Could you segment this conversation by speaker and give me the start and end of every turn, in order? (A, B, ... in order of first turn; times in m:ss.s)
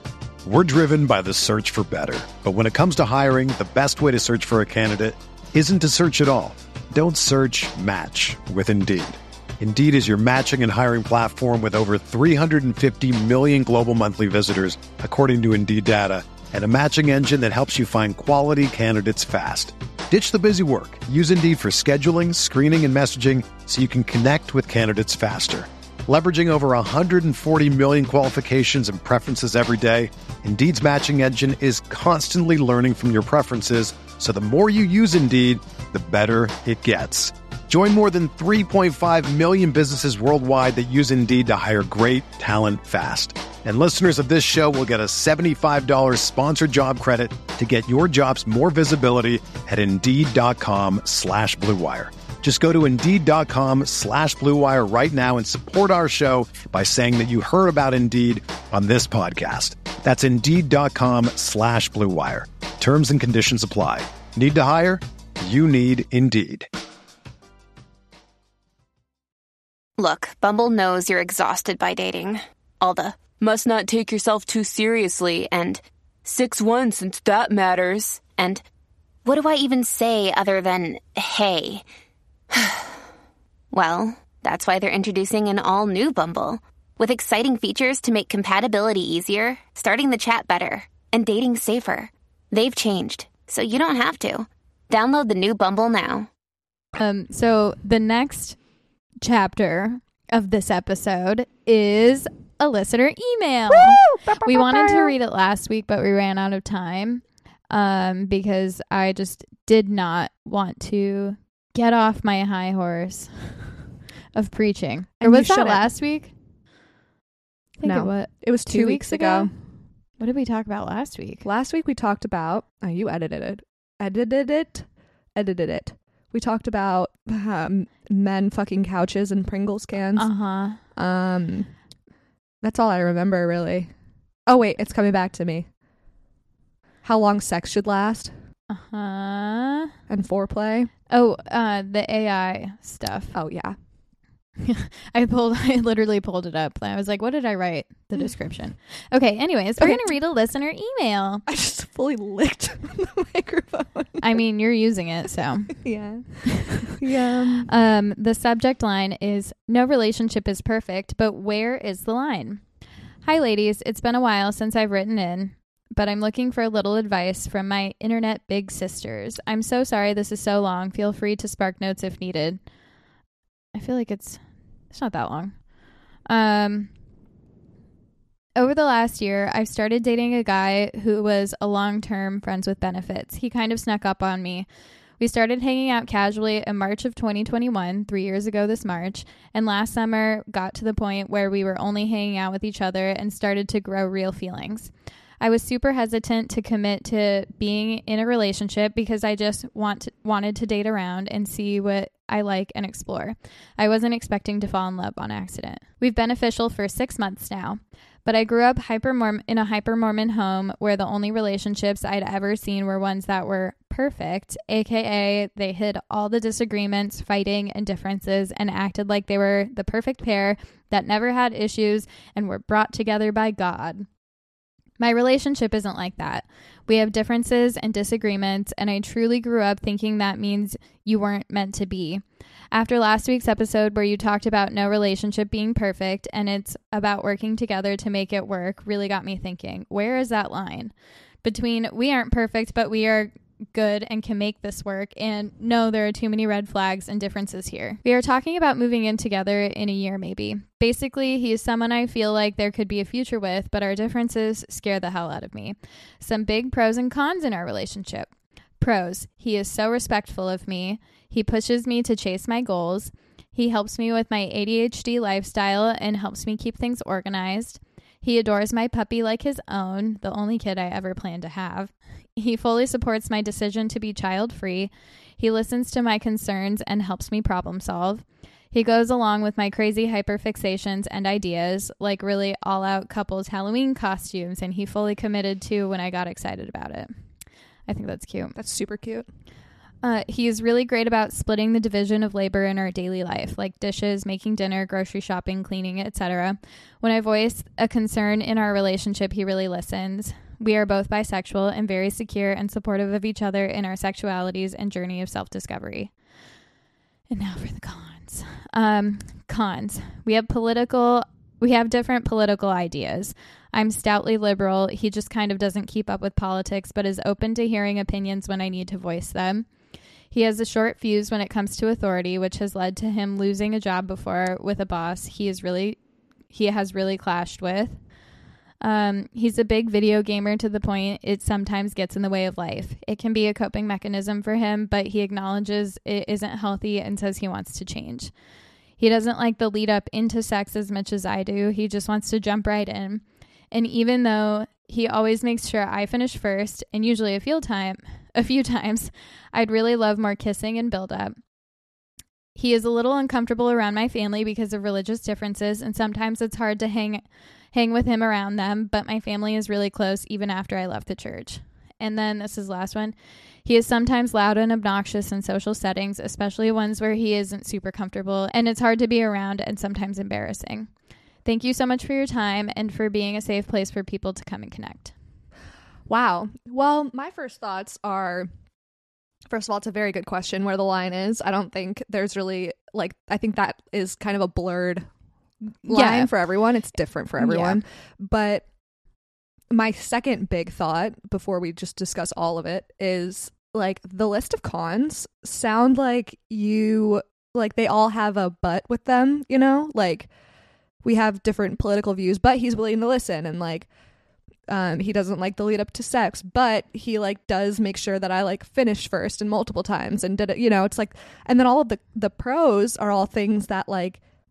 0:00.4-1:06.7 A
1:10.0-1:18.6 B
1:19.2-1:21.8 B
1:22.5-1:22.9 B
1:23.7-1:36.3 B
1:37.0-1:38.6 C
1:39.2-1:53.5 C
1:43.7-1:45.1 D
1:54.3-1:56.3 C
1:55.2-1:55.9 D
1:57.8-1:59.5 C
1:57.8-1:59.5 D
2:00.2-2:01.4 C
2:01.4-2:10.3 D
2:10.2-2:10.8 C
2:10.9-2:11.7 D
2:12.6-2:13.9 D
2:14.5-2:15.7 D
2:17.0-2:18.3 D
2:18.7-2:19.9 C
2:20.1-2:20.9 D
2:21.1-2:23.3 C
2:23.3-2:23.8 D
2:24.6-2:31.4 C
2:29.8-2:30.1 D
2:31.5-2:34.3 D
2:34.2-2:35.8 C
2:35.7-2:37.7 D
2:36.4-2:36.9 C
2:37.7-2:42.6 C
2:43.2-2:52.6 C
2:53.7-2:54.4 C
2:54.9-2:55.5 C
2:56.3-2:56.9 C
2:58.6-3:04.6 C
3:05.2-3:44.1 C
3:45.0-4:00.9 C
4:01.4-4:47.1 C
4:47.9-4:48.6 C
4:48.6-4:49.3 D
4:50.0-5:06.1 C
5:07.3-5:19.7 C
5:20.3-5:26.0 C
5:26.5-5:28.0 C
5:28.8-5:38.3 C
5:39.0-5:51.4 C
5:52.6-6:03.1 C
6:03.6-6:10.9 C
6:11.4-6:15.1 C
6:16.1-6:18.5 D
6:19.5-6:25.1 D
6:25.8-6:28.6 D
6:25.9-6:26.3 C
6:27.4-6:27.8 C
6:29.7-6:40.3 D
6:41.0-6:43.9 D
6:44.7-6:54.2 D